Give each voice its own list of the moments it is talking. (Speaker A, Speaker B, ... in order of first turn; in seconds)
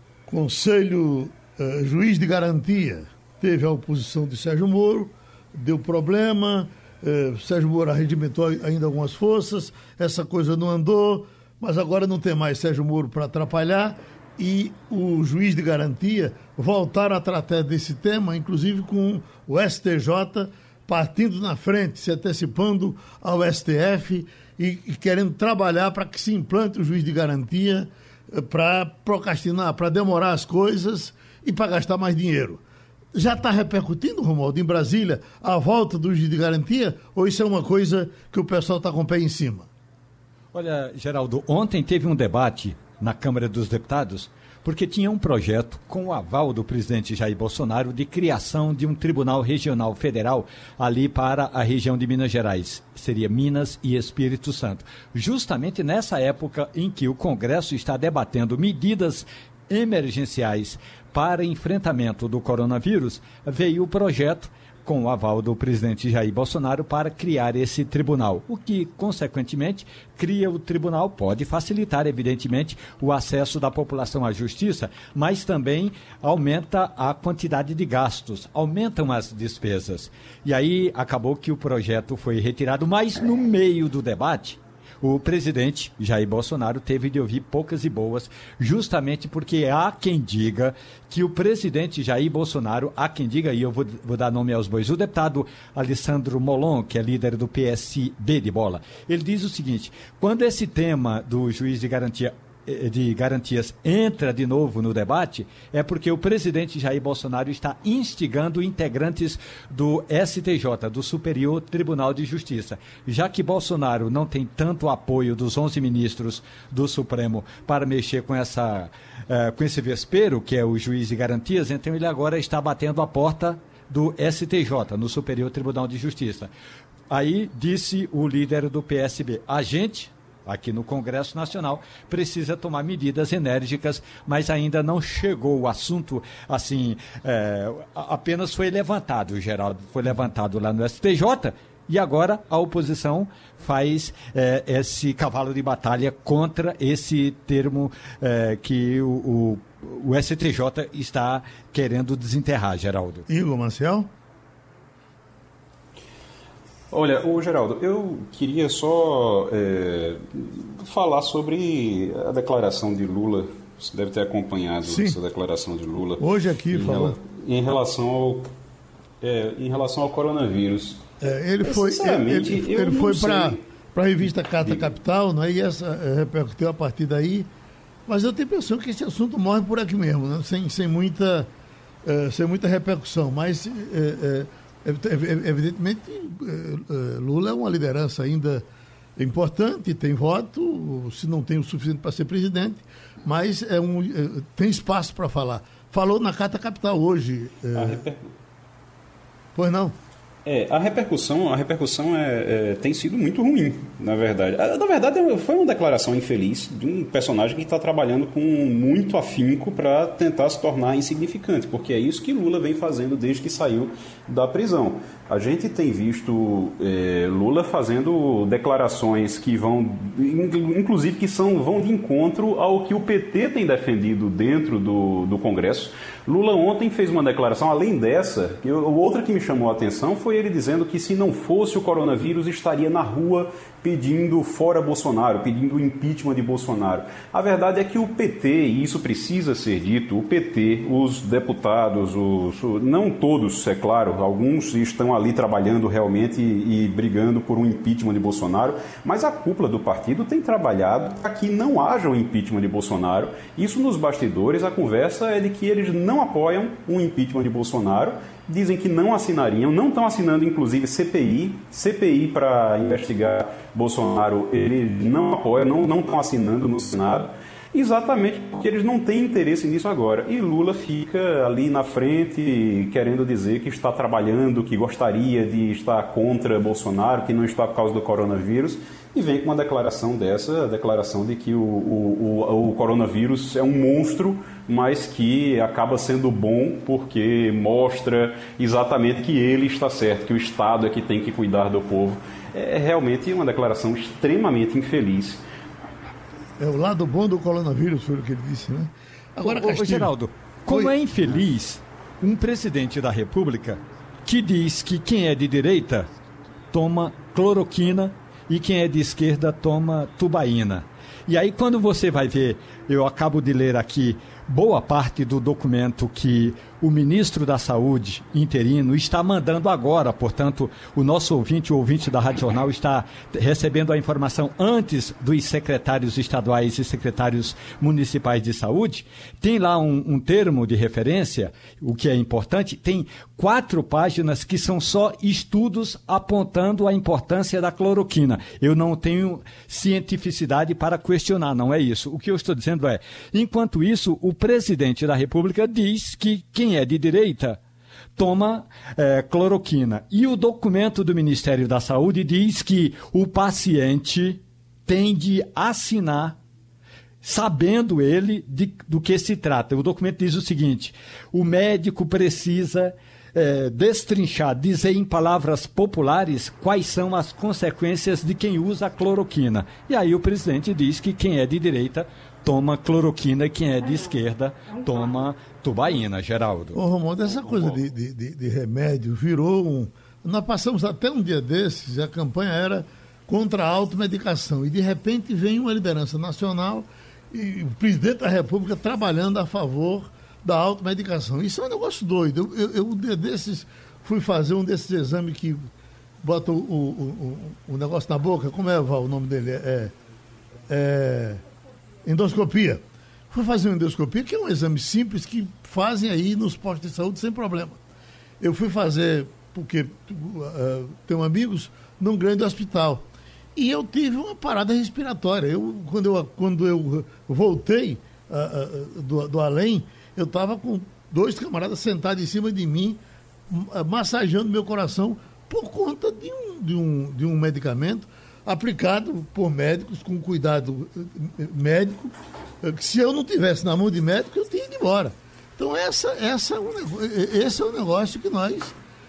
Speaker A: 0.2-32.6, 33.1-39.7, 153.3-154.1, 164.8-165.2, 166.2-167.2, 171.2-177.5, 178.1-181.5, 182.0-188.6, 189.2-198.0, 199.5-199.9, 296.6-300.1, 300.7-300.9, 376.7-395.7, 396.2-399.9, 400.7-401.4, 402.0-407.8, 408.4-438.8
Speaker B: 40.5-126.5, 127.1-153.2, 299.4-306.1, 306.7-347.6, 348.1-356.4, 357.2-376.8
Speaker C: 156.9-168.5, 169.2-171.1, 171.6-173.6, 174.6-174.9, 197.7-198.3, 200.4-295.4